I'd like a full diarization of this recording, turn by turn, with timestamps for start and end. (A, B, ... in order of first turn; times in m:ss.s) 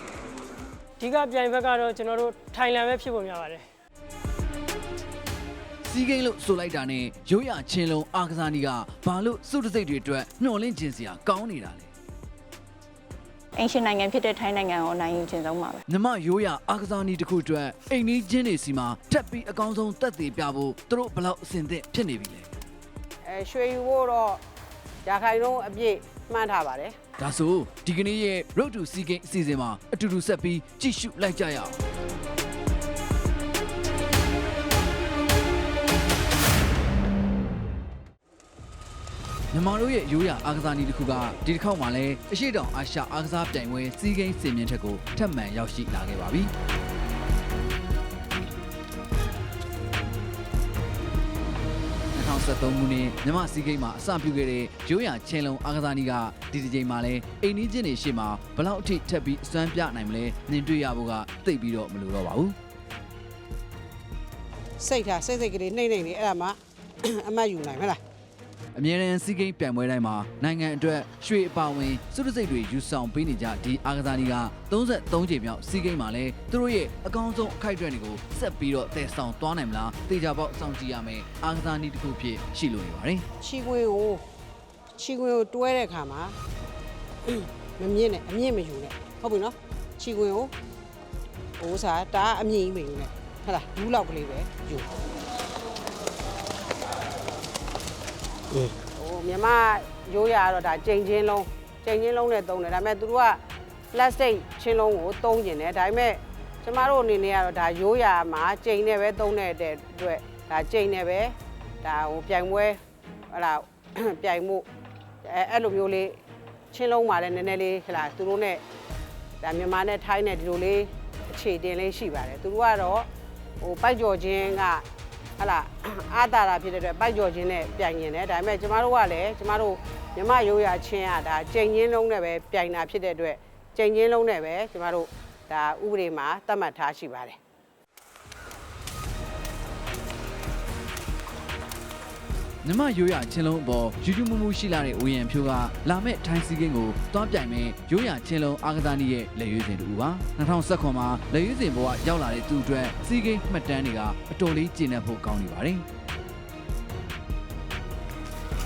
0:01.0-0:03.6 A
0:05.8-0:11.9 B
0:13.6-0:15.8 C
0:15.9-0:22.5 B
0:23.3-0:24.4 D
0:25.0-0:27.0 D
0:27.2-0:31.8 B
0:39.5-0:46.5 B
0:52.2-1:02.6 B
1:04.8-1:08.0 D
1:08.8-1:23.3 B
1:23.4-1:24.2 D
1:25.0-1:26.4 D
1:27.3-1:30.5 D
1:31.6-1:34.9 D
1:38.5-1:43.4 D
1:43.9-1:54.7 D
1:55.2-1:56.2 D
1:56.7-1:58.6 D
1:59.4-2:03.1 D
2:03.6-2:04.8 D
2:05.4-2:17.4 D
2:22.6-2:35.8 B